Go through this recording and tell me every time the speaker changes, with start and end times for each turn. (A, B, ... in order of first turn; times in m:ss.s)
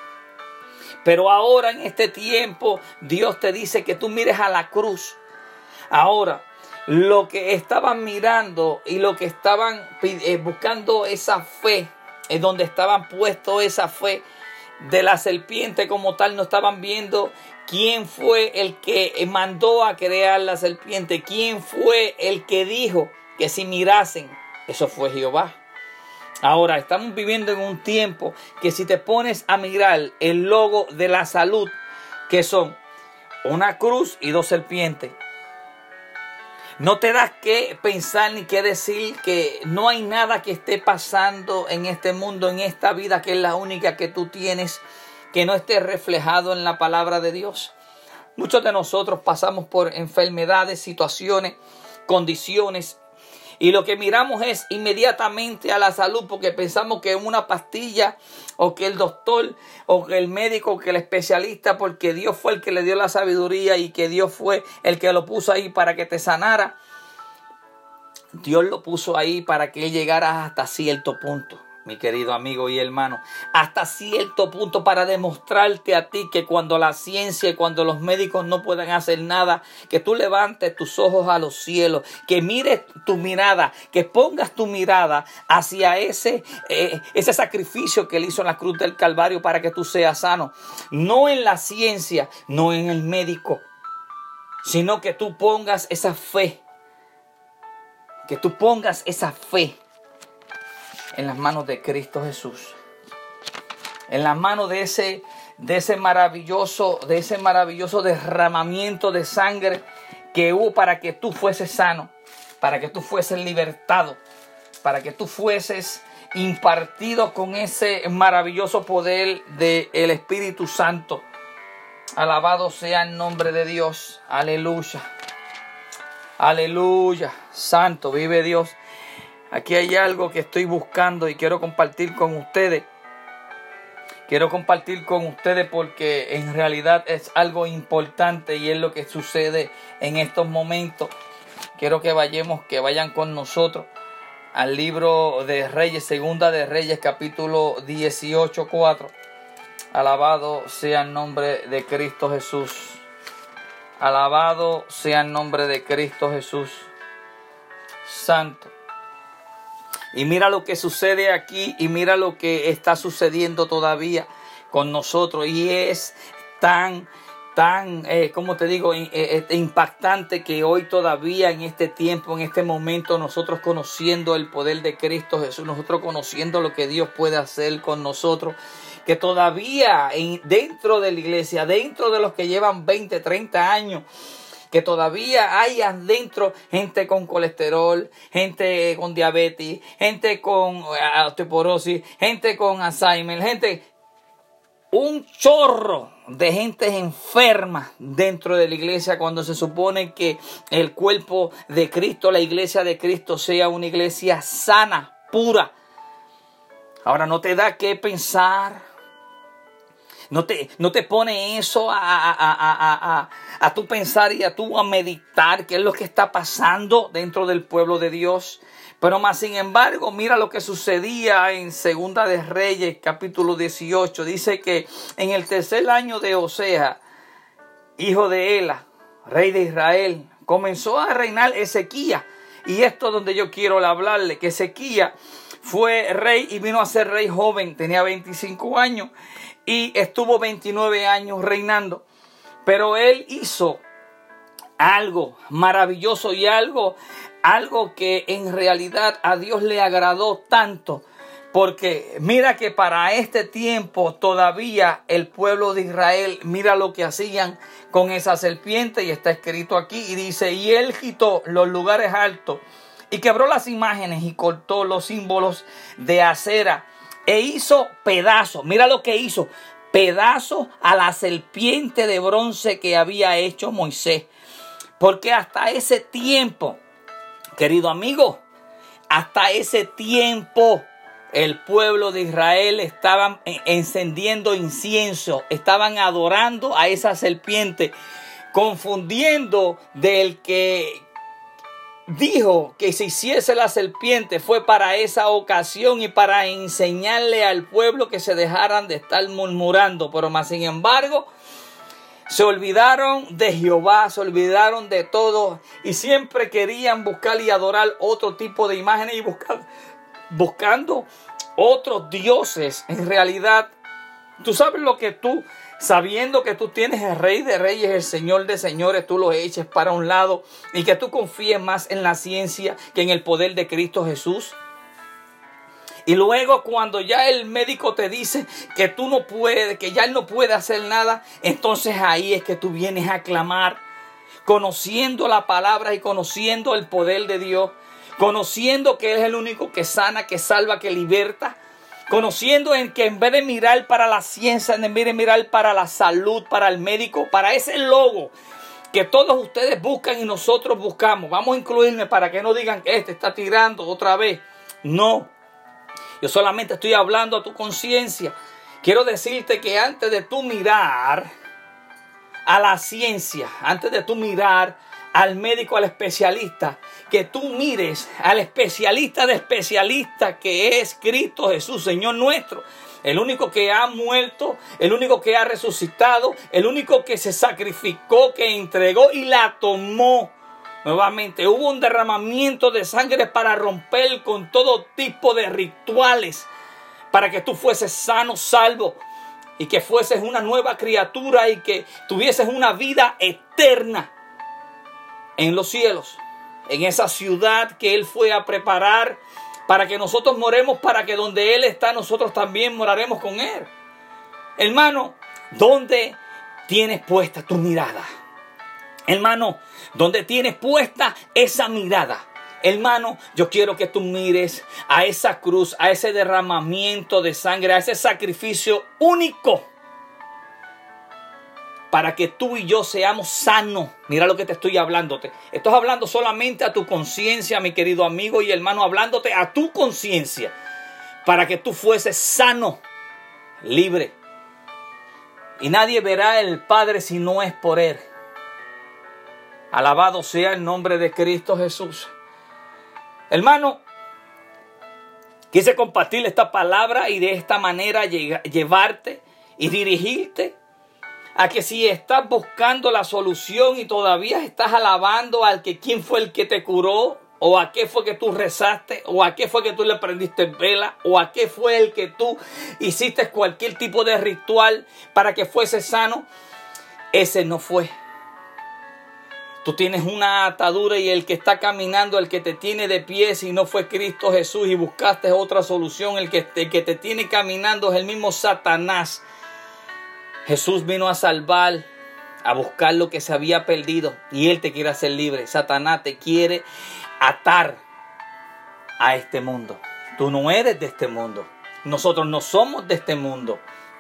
0:01.0-0:05.2 A
0:05.9-0:14.2 A
0:14.8-0:25.6 A
0:26.4-0:31.8 A
0:32.3-0:32.8 A
0:33.4-0:35.2 A
0:36.8-0:47.7 A
0:48.4-0:53.0 A
0:53.6-1:06.8 A
1:08.4-1:33.6 A
1:34.6-1:36.6 A
1:38.3-1:39.8 A
1:41.1-1:42.8 A
1:44.1-1:54.2 A
1:54.8-2:01.2 A
2:02.2-2:05.1 A
2:06.4-2:08.8 A
2:09.5-2:12.9 A
2:14.3-2:21.1 A
2:21.8-2:23.9 A
2:24.5-2:29.1 A
2:29.9-2:33.0 A
2:34.0-2:36.9 A
2:38.0-2:38.7 A
2:40.1-3:04.0 A
3:04.7-3:13.9 A
3:14.9-3:25.7 A
3:27.0-3:28.8 A
3:30.3-3:47.0 A
3:48.0-3:59.1 A
3:59.7-4:02.0 A
4:02.6-4:03.8 A
4:04.8-4:34.3 A
4:35.0-4:36.8 A
4:37.6-4:38.4 A
4:39.1-4:48.0 A
4:48.5-4:51.0 A
4:52.1-5:01.3 A
5:02.3-5:09.6 A
5:10.3-5:13.7 A
5:14.4-5:24.6 A
5:26.1-5:33.8 A
5:34.4-5:41.6 A
5:42.1-5:48.3 A
5:48.9-5:55.3 A
5:56.2-6:01.3 A
6:02.5-6:20.3 A
6:20.8-6:26.5 A
6:27.1-6:29.0 A
6:29.6-6:34.1 A
6:35.4-6:43.7 A
6:44.6-6:48.1 A
6:49.1-6:59.7 A
7:01.9-7:10.5 A
7:11.2-7:12.8 A
7:13.6-7:14.2 A
7:15.6-7:18.0 A
7:19.7-7:22.1 A
7:23.3-7:23.8 A
7:25.5-7:30.6 A
7:31.4-7:46.3 A
7:47.1-7:47.9 A
7:49.6-7:59.2 A
8:00.5-8:01.9 A
8:02.4-8:06.7 A
8:07.2-8:07.8 A
8:09.0-8:13.6 A